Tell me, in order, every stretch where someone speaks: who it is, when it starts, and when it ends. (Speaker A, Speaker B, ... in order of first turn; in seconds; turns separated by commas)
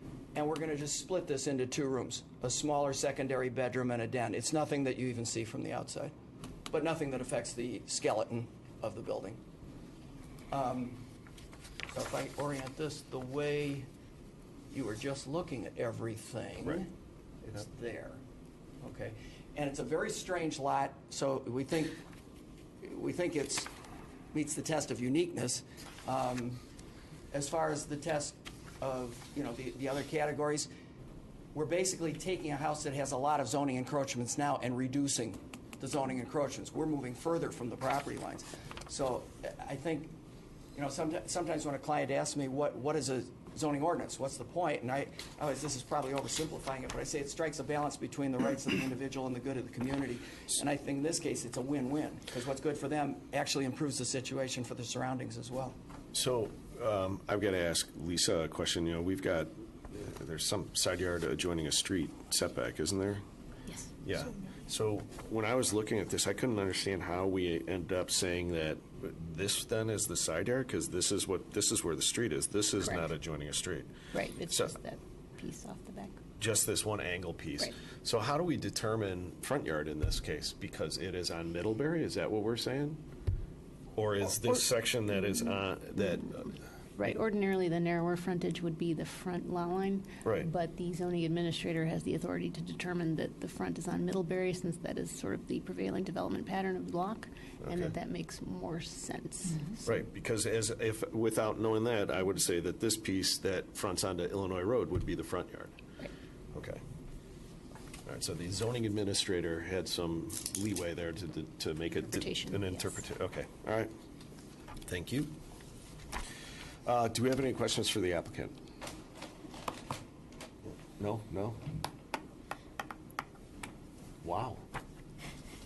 Speaker A: 0.3-6.1, Speaker A: 6.7-9.4, Speaker A: 10.5-11.0, Speaker A: 11.9-13.9, Speaker A: 14.7-16.9, Speaker A: 17.4-18.2, Speaker A: 18.8-22.0, Speaker A: 22.8-23.7, Speaker A: 24.3-26.6, Speaker A: 27.3-30.7, Speaker A: 31.5-40.1, Speaker A: 40.7-55.8, Speaker B: 56.1-63.2, Speaker B: 64.0-73.9, Speaker C: 72.8-73.1, Speaker C: 74.1-76.2, Speaker B: 74.5-74.7, Speaker B: 76.4-83.0, Speaker B: 83.9-86.5, Speaker C: 85.2-85.6, Speaker C: 87.0-99.8, Speaker B: 97.6-97.9, Speaker B: 99.8-105.8, Speaker B: 106.5-106.8, Speaker B: 108.0-113.9, Speaker C: 112.1-113.0, Speaker B: 114.8-115.3, Speaker B: 116.8-118.5, Speaker B: 121.0-121.6, Speaker B: 124.2-124.6